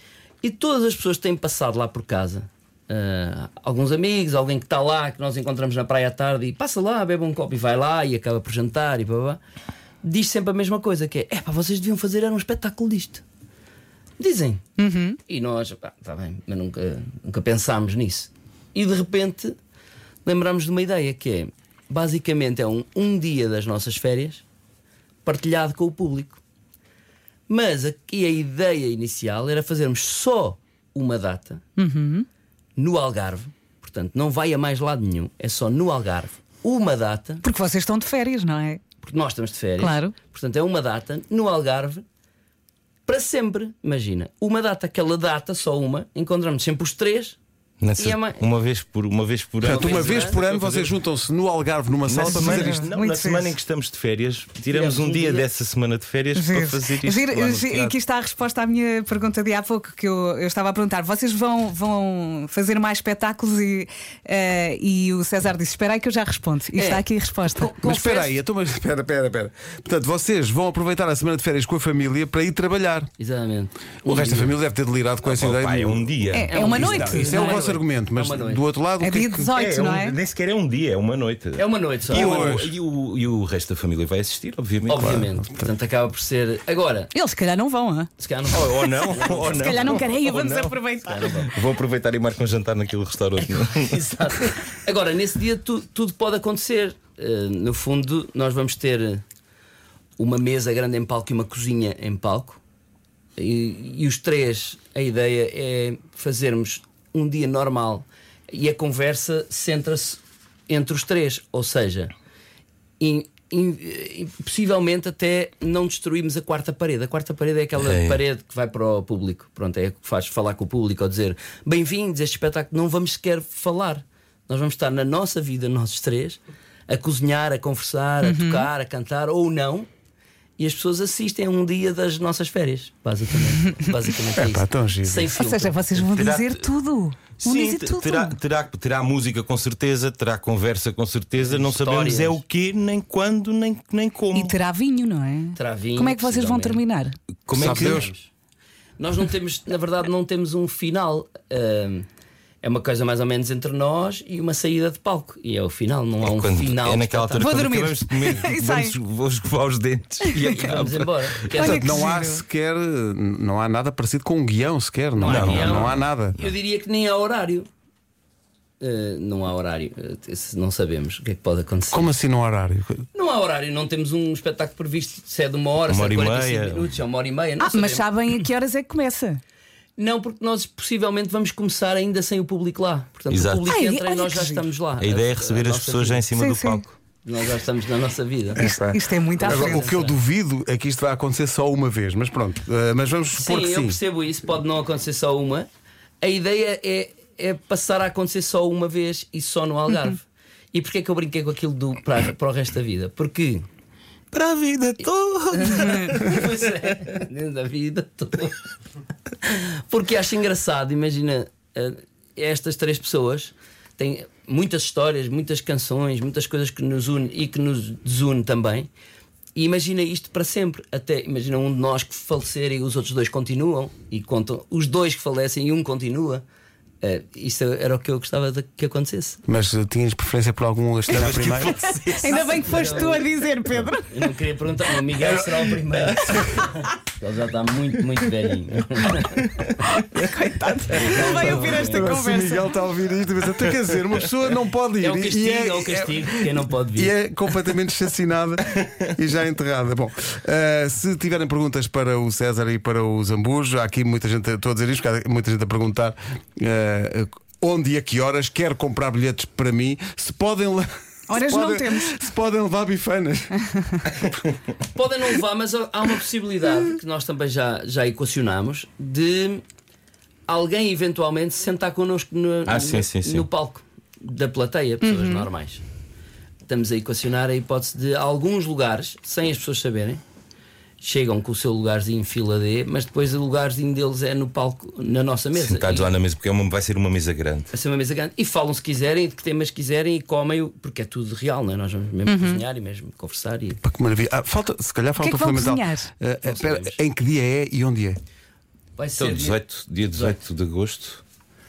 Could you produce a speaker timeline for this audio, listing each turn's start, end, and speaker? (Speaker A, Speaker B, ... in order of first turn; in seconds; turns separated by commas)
Speaker A: 0.4-9.4, Speaker A: 10.0-13.2, Speaker A: 14.2-14.6, Speaker B: 14.8-15.2, Speaker A: 15.3-19.6, Speaker A: 20.2-24.4, Speaker A: 25.2-26.4, Speaker A: 27.5-31.6, Speaker B: 31.8-32.2, Speaker A: 32.8-37.4, Speaker B: 37.4-38.8, Speaker A: 39.0-42.0, Speaker B: 39.8-40.1, Speaker A: 43.0-47.4, Speaker C: 47.8-50.9, Speaker A: 48.0-48.4, Speaker D: 49.6-52.9, Speaker A: 49.7-50.4, Speaker C: 52.0-58.0, Speaker B: 52.2-53.5, Speaker A: 54.7-55.5, Speaker B: 56.3-68.3, Speaker A: 66.8-67.0, Speaker D: 67.6-73.1, Speaker A: 73.2-74.6, Speaker D: 74.0-76.1, Speaker C: 75.2-76.8, Speaker B: 76.3-77.6, Speaker A: 76.4-78.6, Speaker D: 76.7-79.5, Speaker B: 79.0-80.2, Speaker C: 79.5-85.1, Speaker A: 81.6-82.6, Speaker D: 82.1-82.7, Speaker A: 84.9-87.1, Speaker D: 85.0-85.7, Speaker B: 87.1-88.1, Speaker A: 88.2-90.1, Speaker C: 88.5-94.0, Speaker B: 89.4-91.2, Speaker A: 91.0-91.5, Speaker A: 93.4-99.2, Speaker A: 100.2-102.6, Speaker A: 103.4-112.1, Speaker A: 113.0-129.9, Speaker C: 117.8-118.2, Speaker B: 128.2-128.7, Speaker A: 130.6-135.8, Speaker D: 134.3-135.3, Speaker B: 135.3-138.3, Speaker C: 135.9-136.7, Speaker C: 137.4-144.6, Speaker A: 141.4-142.4, Speaker B: 144.3-147.2, Speaker A: 145.6-146.8, Speaker C: 147.5-148.1, Speaker A: 147.5-148.3, Speaker D: 147.5-148.1, Speaker A: 149.0-152.1, Speaker A: 152.6-157.7, Speaker C: 156.2-161.5, Speaker B: 157.4-158.9, Speaker B: 160.2-160.6, Speaker A: 160.5-162.1, Speaker B: 161.5-162.4, Speaker D: 161.6-166.4, Speaker A: 165.2-167.7, Speaker C: 165.2-166.0, Speaker A: 168.8-172.1, Speaker D: 171.9-173.0, Speaker A: 173.1-178.1, Speaker C: 175.9-177.0, Speaker B: 177.6-179.4, Speaker A: 180.0-186.2, Speaker C: 183.3-183.7, Speaker B: 183.7-184.7, Speaker C: 185.0-186.9, Speaker B: 186.3-186.8, Speaker A: 187.2-188.6, Speaker D: 188.6-194.0, Speaker B: 188.6-189.9, Speaker A: 189.4-190.2, Speaker A: 193.3-195.7, Speaker A: 196.2-203.7, Speaker C: 204.3-206.6, Speaker A: 205.5-208.6, Speaker A: 209.4-218.9, Speaker A: 219.5-226.4, Speaker A: 227.0-229.4, Speaker D: 229.5-231.7, Speaker C: 231.1-233.0, Speaker B: 232.1-234.1, Speaker A: 232.3-239.4, Speaker C: 235.2-236.6, Speaker B: 239.8-242.7, Speaker A: 240.9-242.2, Speaker C: 241.1-241.8, Speaker D: 241.4-264.3, Speaker A: 245.0-247.1, Speaker B: 261.3-262.1, Speaker A: 264.9-269.6, Speaker A: 270.5-275.8, Speaker C: 272.7-273.5, Speaker B: 275.0-275.4, Speaker A: 276.6-280.2, Speaker A: 281.0-286.1, Speaker C: 285.5-287.7, Speaker A: 287.7-293.8, Speaker B: 292.2-292.6, Speaker D: 293.8-298.2, Speaker B: 295.2-296.1, Speaker A: 296.4-297.0, Speaker A: 299.0-300.4, Speaker C: 299.2-301.2